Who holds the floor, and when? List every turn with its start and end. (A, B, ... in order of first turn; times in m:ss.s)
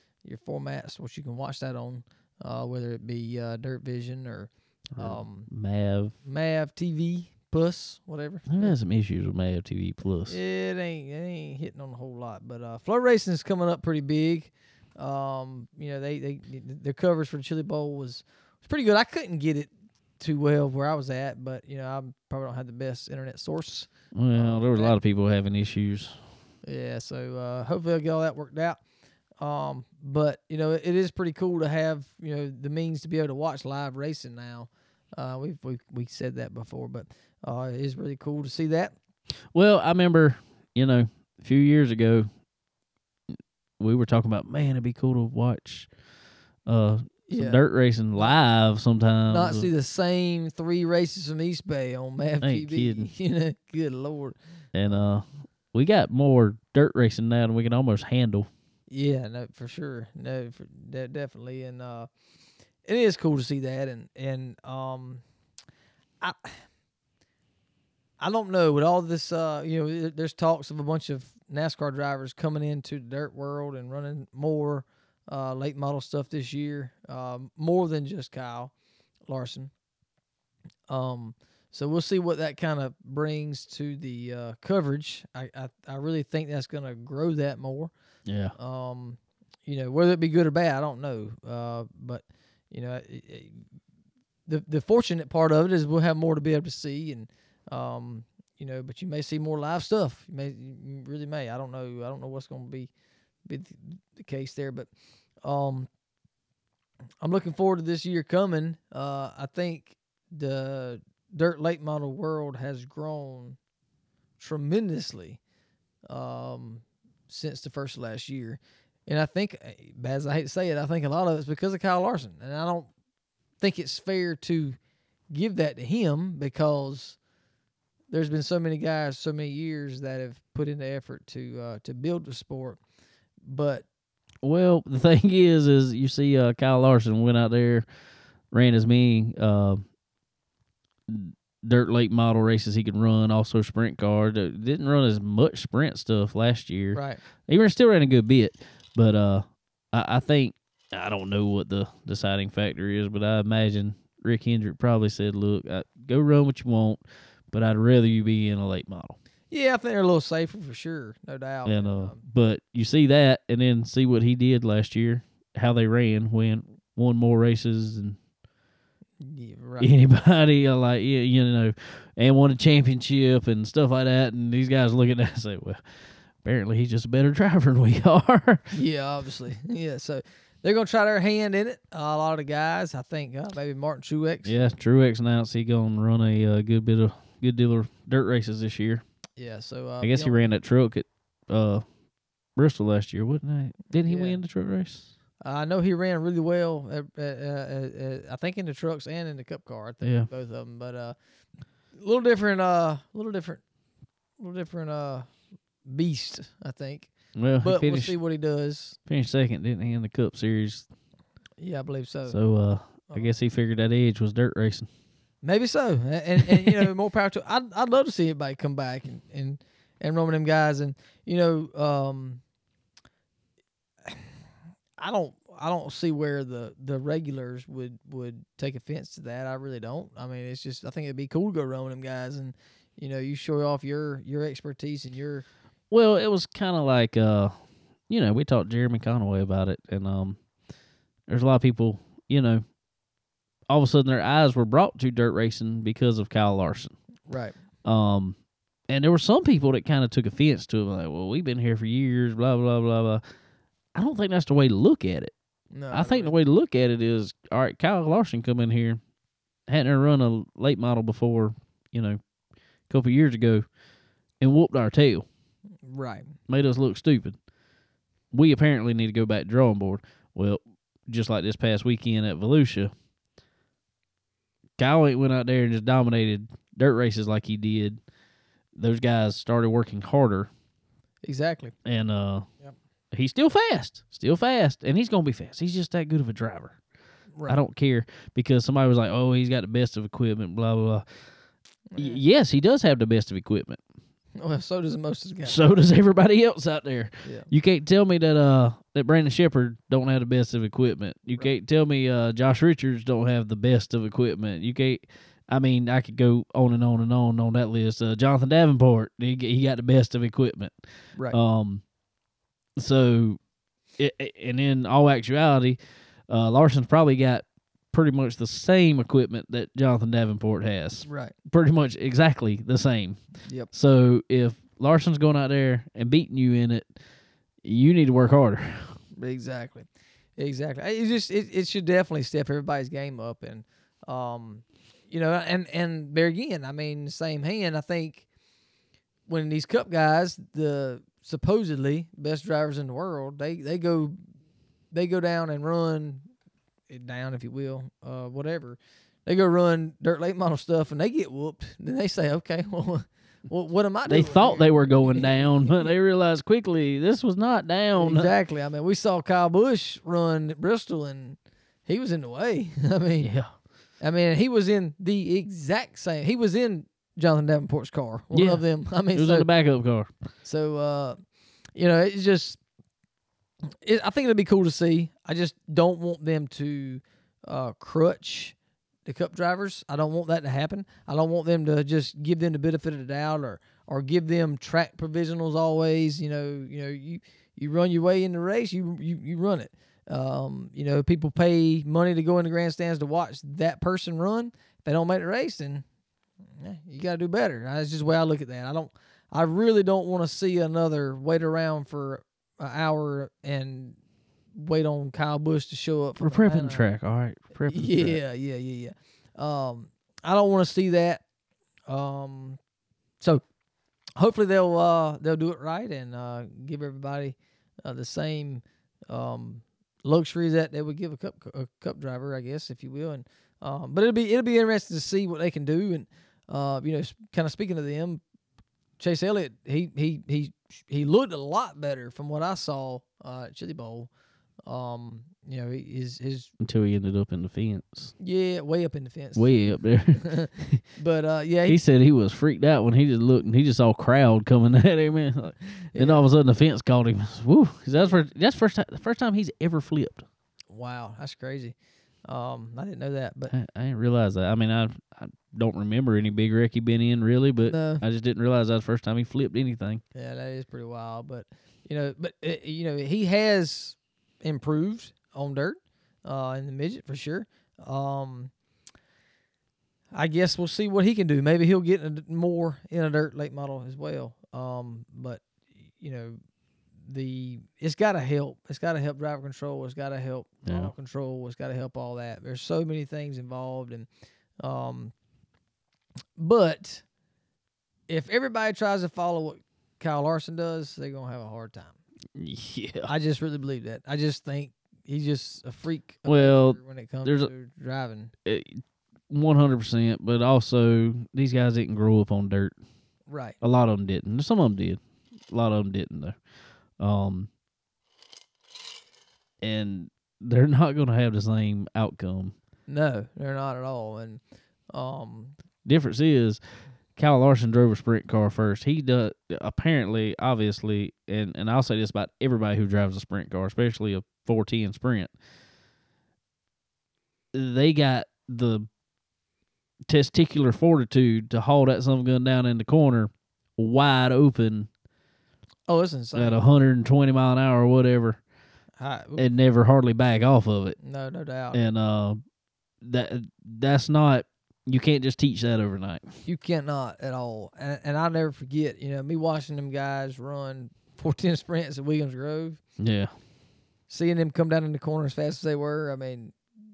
0:00.2-0:05.5 A
0:05.0-0:06.2 B
0:06.2-0:08.7 A
0:08.5-0:10.4 B
0:10.3-0:25.0 A
0:24.1-0:26.2 B
0:26.6-0:28.8 A
0:29.4-0:38.9 A
0:39.5-0:42.3 B
0:43.8-0:45.9 B
0:46.7-0:49.7 B
0:47.3-0:47.6 A
0:49.3-0:55.0 A
0:52.4-0:53.1 B
0:54.7-0:58.5 B
0:58.9-1:02.1 A
1:02.8-1:05.2 A
1:06.2-1:06.6 A
1:08.2-1:18.7 A
1:19.3-1:19.7 A
1:20.9-1:27.9 A
1:28.3-1:28.6 B
1:28.6-1:33.6 A
1:34.5-1:42.9 A
1:43.5-1:44.9 A
1:45.4-1:45.9 A
1:47.2-1:53.6 A
1:54.4-1:55.4 A
1:56.1-2:02.9 A
2:03.6-2:04.8 A
2:05.3-2:07.2 A
2:08.1-2:12.8 A
2:13.5-2:13.8 A
2:14.4-2:17.9 B
2:18.5-2:19.8 B
2:21.1-2:39.2 B
2:39.5-2:42.2 A
2:41.6-2:48.2 B
2:49.2-2:49.9 A
2:49.8-2:55.8 B
2:56.4-2:58.7 B
2:58.7-3:04.7 A
3:04.4-3:09.0 B
3:09.4-3:10.4 A
3:10.0-3:11.8 B
3:12.6-3:15.1 B
3:14.1-3:14.4 A
3:15.4-3:21.2 A
3:20.0-3:20.3 B
3:21.9-3:23.6 A
3:24.4-3:29.0 A
3:27.4-3:28.2 B
3:29.1-3:30.9 B
3:31.6-3:32.4 A
3:32.3-3:34.9 B
3:35.4-3:42.4 A
3:45.0-3:55.5 A
3:55.9-3:57.6 B
3:58.1-4:00.4 B
4:01.3-4:02.6 B
4:03.7-4:07.0 B
4:07.3-4:07.6 A
4:07.8-4:13.2 B
4:14.0-4:15.3 B
4:15.7-4:16.3 A
4:15.9-4:19.0 B
4:19.7-4:22.2 B
4:22.9-4:23.6 B
4:24.4-4:25.2 B
4:25.9-4:26.3 A
4:26.5-4:27.4 B
4:28.3-4:32.9 B
4:34.8-4:38.0 B
4:38.8-4:40.5 B
4:41.2-4:41.8 A
4:41.8-4:42.5 B
4:43.1-4:46.8 B
4:47.5-4:51.1 B
4:51.9-4:52.2 A
4:52.0-4:53.8 B
4:54.4-4:55.8 A
4:55.4-5:10.8 B
5:11.3-5:11.8 B
5:12.8-5:13.4 B
5:14.0-5:27.0 B
5:21.0-5:21.3 A
5:23.4-5:23.7 A
5:27.6-5:29.0 B
5:29.2-5:38.2 A
5:39.3-5:44.2 A
5:44.9-5:46.2 A
5:46.9-5:55.9 A
5:54.1-5:58.3 B
5:58.0-6:03.3 A
6:03.2-6:03.5 B
6:04.0-6:09.5 A
6:08.3-6:10.1 B
6:10.4-6:11.2 A
6:11.8-6:12.6 A
6:13.8-6:35.8 A
6:36.6-6:44.0 A
6:44.6-6:46.9 A
6:46.2-6:48.2 B
6:47.7-6:51.2 A
6:51.9-6:52.6 A
6:54.2-7:08.2 A
7:09.0-7:14.1 A
7:14.7-7:16.5 A
7:16.6-7:18.1 B
7:18.2-7:19.6 A
7:19.4-7:20.8 B
7:20.2-7:21.8 A
7:21.7-7:30.2 B
7:26.0-7:26.3 A
7:30.7-7:31.8 A
7:32.3-7:33.5 A
7:33.5-7:40.0 B
7:37.7-7:38.0 A
7:40.2-7:48.5 A
7:50.1-7:55.4 A
7:56.0-7:56.4 A
7:57.0-8:04.1 A
8:00.7-8:00.9 B
8:04.6-8:05.1 A
8:06.4-8:07.0 A
8:08.1-8:12.0 A
8:12.4-8:13.1 B
8:13.0-8:18.3 A
8:16.3-8:17.5 B
8:18.5-8:22.8 B
8:23.3-8:23.6 A
8:23.6-8:26.4 B
8:27.0-8:27.5 B
8:29.6-8:32.6 B
8:32.9-8:34.4 A
8:34.9-8:35.6 A
8:35.8-8:36.6 B
8:37.1-8:45.3 B
8:47.5-8:48.9 B
8:50.1-8:54.9 B
8:55.9-8:56.6 A
8:56.4-8:58.4 B
8:59.0-8:59.5 A
8:59.4-9:01.0 B
9:01.0-9:01.8 A
9:01.7-9:02.4 B
9:03.0-9:06.3 B
9:06.4-9:12.8 A
9:13.0-9:13.3 B
9:14.1-9:16.6 A